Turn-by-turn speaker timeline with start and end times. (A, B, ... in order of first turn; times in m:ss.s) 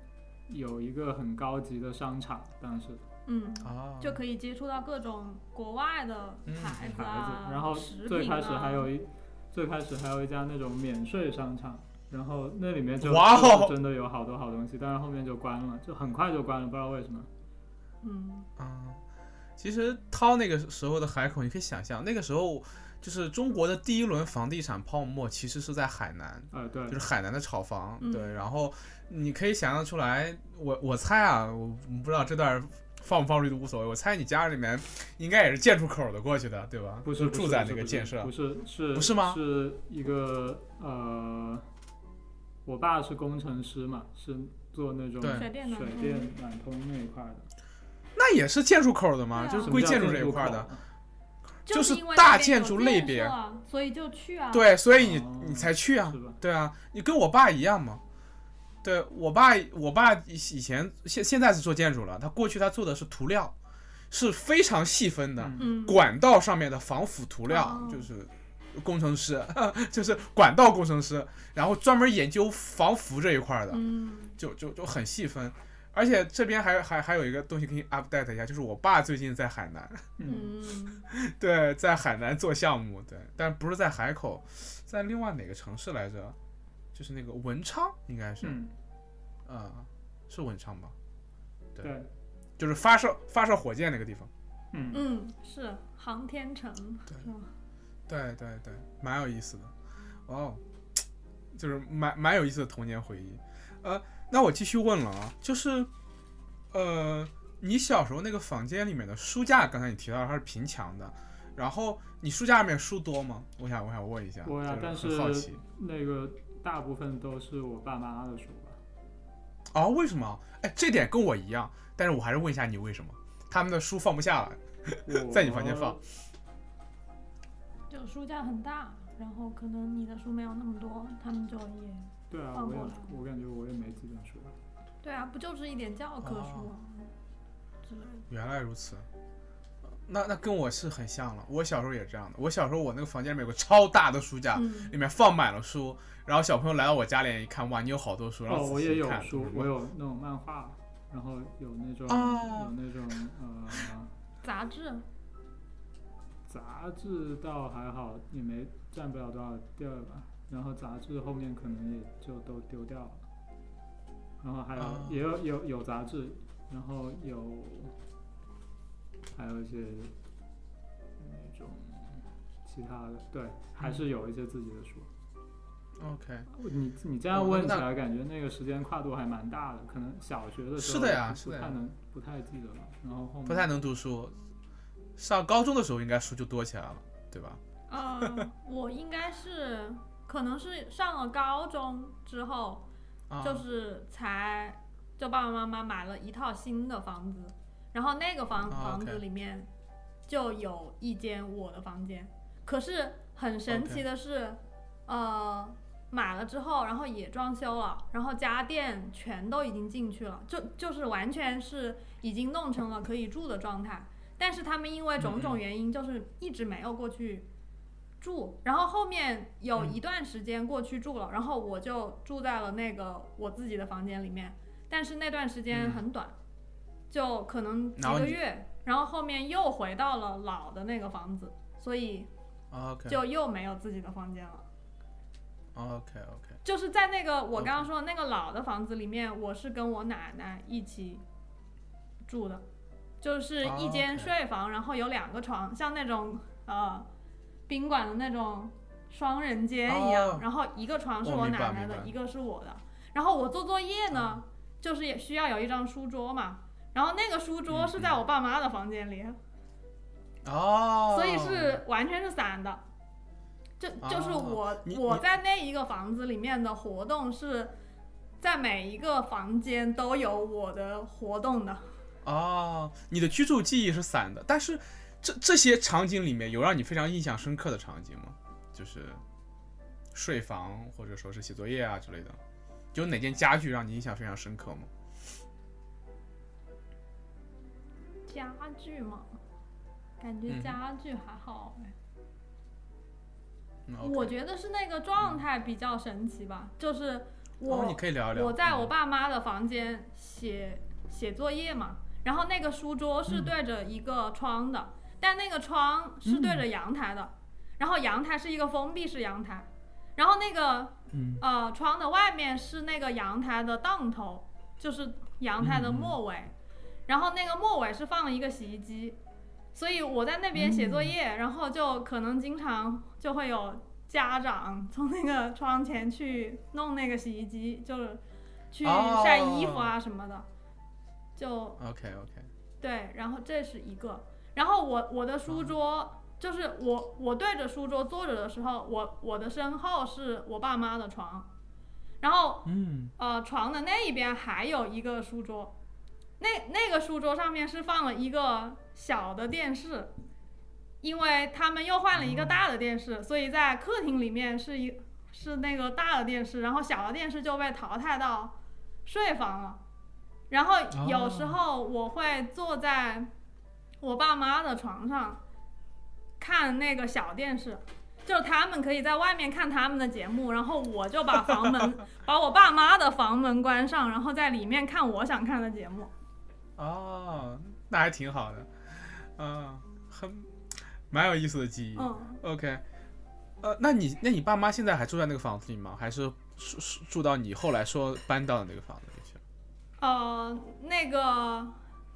0:00.5-0:03.0 A
0:03.2-0:08.9 B
0:03.6-0:04.2 C
0:06.4-0:07.0 C
0:06.8-0:17.3 A
0:13.0-0:13.7 C
0:18.0-0:18.5 B
0:18.6-0:19.0 C
0:19.6-0:38.3 C
0:26.5-0:27.0 A
0:28.0-0:28.4 B
0:37.0-0:41.6 A
0:38.9-0:39.4 C
0:42.6-0:47.5 A
0:45.2-0:45.4 C
0:45.3-0:46.3 B
0:48.2-0:50.7 C
0:49.3-0:49.8 B
0:49.6-0:50.8 A
0:51.6-0:53.3 C
0:51.6-0:54.7 B
0:54.5-0:58.0 C
0:54.9-0:56.4 A
0:58.8-1:03.5 C
1:04.1-1:13.8 C
1:05.4-1:05.7 A
1:05.6-1:06.0 B
1:07.5-1:08.1 B
1:13.7-1:14.4 B
1:14.4-1:20.1 C
1:20.2-1:20.5 A
1:20.2-1:21.0 B
1:21.1-1:26.4 C
1:26.9-1:28.6 C
1:28.4-1:28.7 A
1:29.4-1:30.9 C
1:31.8-1:32.1 A
1:32.6-1:34.3 C
1:34.7-1:35.0 A
1:34.9-1:37.5 B
1:38.1-1:39.7 C
1:40.3-1:40.6 C
1:41.5-1:45.9 C
1:46.7-1:55.6 C
1:54.4-1:58.8 A
1:59.7-2:06.0 C
2:05.0-2:06.0 A
2:07.9-2:13.1 B
2:12.3-2:14.5 A
2:15.0-2:17.1 B
2:16.2-2:16.7 C
2:17.8-2:18.2 B
2:18.3-2:19.0 C
2:20.0-2:29.7 C
2:24.5-2:24.9 B
2:28.5-2:34.1 A
2:32.1-2:32.7 C
2:34.4-2:35.0 B
2:36.5-2:43.2 A
2:44.4-2:47.9 A
2:44.8-2:45.2 C
2:49.3-2:50.1 A
2:51.2-2:55.1 A
2:53.8-2:54.0 C
2:56.0-2:56.5 C
2:56.5-3:03.7 A
2:57.3-2:57.8 C
3:00.8-3:01.8 C
3:03.4-3:04.3 C
3:05.2-3:07.6 C
3:07.9-3:12.9 B
3:08.2-3:08.5 C
3:13.3-3:13.6 C
3:13.4-3:19.7 B
3:18.7-3:19.2 C
3:20.3-3:37.5 B
3:23.7-3:24.0 C
3:35.2-3:35.6 C
3:38.2-3:46.3 B
3:45.7-3:46.0 C
3:47.1-3:52.3 B
3:48.0-3:48.4 C
3:52.7-3:53.2 C
3:53.1-3:54.6 B
3:55.7-3:56.6 C
3:56.6-4:01.2 B
3:57.6-3:57.9 C
4:02.3-4:02.6 B
4:03.2-4:07.1 B
4:03.6-4:04.3 C
4:07.7-4:19.4 B
4:09.9-4:10.4 C
4:11.2-4:12.1 C
4:14.1-4:14.4 C
4:17.7-4:18.2 C
4:20.4-4:21.8 C
4:21.1-4:22.8 B
4:23.8-4:27.7 B
4:24.0-4:25.2 C
4:28.4-4:31.8 B
4:32.2-4:39.2 C
4:40.1-4:42.4 C
4:42.9-4:44.9 C
4:48.3-4:49.3 B
4:50.2-4:51.9 B
4:50.5-4:50.8 C
4:53.9-4:54.3 C
4:54.0-5:16.5 B
4:57.7-4:58.9 C
5:06.2-5:06.6 C
5:11.1-5:11.4 C
5:15.6-5:16.2 C
5:17.1-5:19.2 B
5:19.7-5:30.5 B
5:20.5-5:21.1 C
5:28.8-5:29.9 C
5:31.4-5:31.8 B
5:31.8-5:32.5 C
5:32.8-5:41.5 B
5:35.5-5:35.7 C
5:42.2-5:45.7 B
5:42.6-5:43.1 C
5:46.4-5:50.1 B
5:51.0-5:58.5 B
5:52.1-5:52.6 C
5:59.0-5:59.8 B
6:00.5-6:03.3 B
6:00.9-6:01.6 C
6:04.0-6:05.4 B
6:06.4-6:16.1 B
6:11.4-6:11.9 C
6:16.8-6:20.5 C
6:21.1-6:22.8 C
6:22.0-6:22.4 B
6:23.6-6:29.4 C
6:30.0-6:31.8 B